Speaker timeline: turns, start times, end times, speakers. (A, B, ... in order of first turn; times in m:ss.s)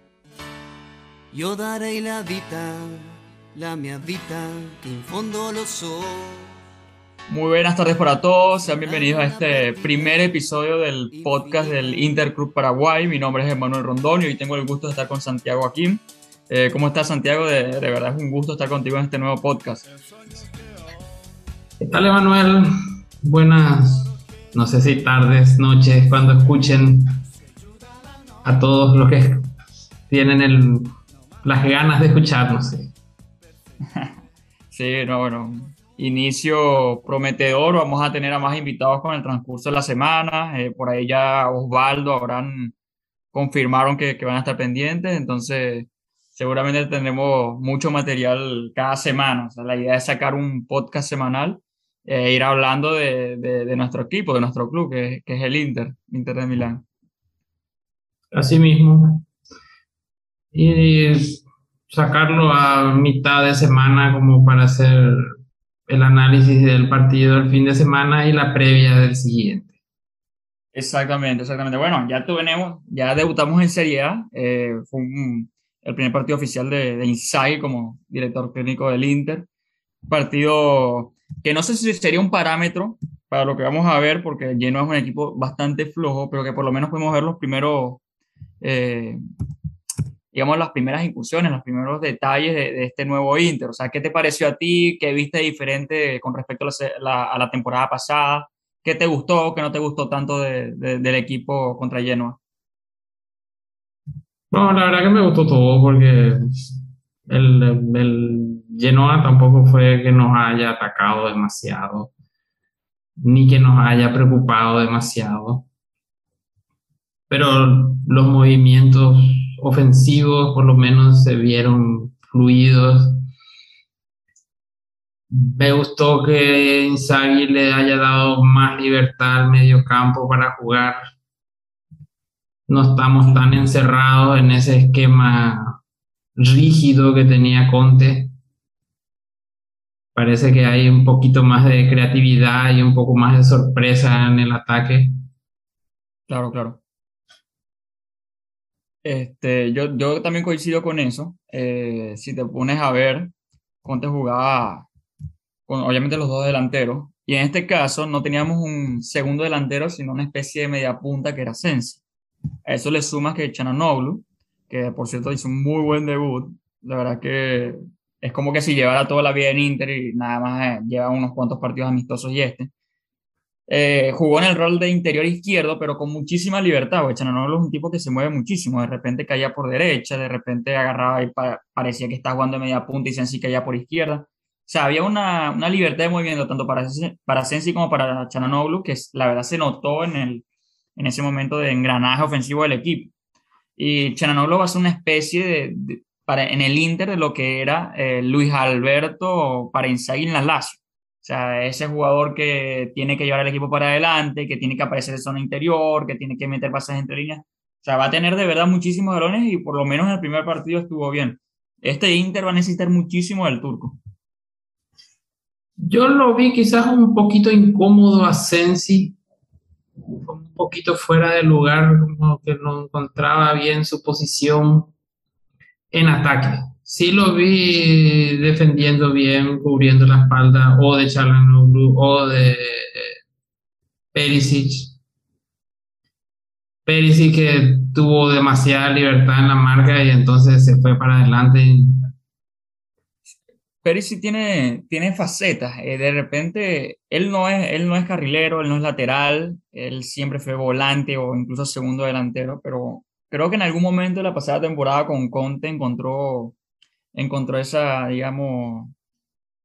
0:01.3-0:06.5 A
0:07.3-0:19.8 B
0:08.5-0:10.4 A
0:11.1-0:12.3 A
0:21.8-0:22.7 C
0:23.2-0:27.2 C
0:28.4-0:29.4 C
0:30.1-0:32.9 C
0:33.9-0:34.1 B
0:34.7-0:42.8 B
0:43.3-0:56.8 B
0:58.3-0:59.3 C
1:00.5-1:05.2 C
1:05.9-1:09.7 C
1:10.7-1:19.5 B
1:20.1-1:28.0 B
1:28.6-1:29.2 B
1:30.3-1:42.4 B
1:44.5-1:46.4 C
1:47.3-1:52.1 C
1:53.2-1:55.7 C
1:57.3-2:03.2 C
2:05.3-2:11.0 C
2:12.7-2:15.8 C
2:16.4-2:18.3 C
2:20.1-2:25.1 C
2:26.3-2:26.8 B
2:29.0-2:33.3 B
2:33.8-2:34.9 B
2:35.7-2:42.0 B
2:42.7-2:52.7 B
2:53.7-3:10.4 B
3:11.0-3:13.1 B
3:13.8-3:34.0 B
3:35.8-3:39.2 C
3:40.2-3:44.9 C
3:45.9-3:53.2 C
3:54.1-3:55.0 C
3:56.8-4:02.1 C
4:03.8-4:16.6 B
4:17.1-4:18.9 B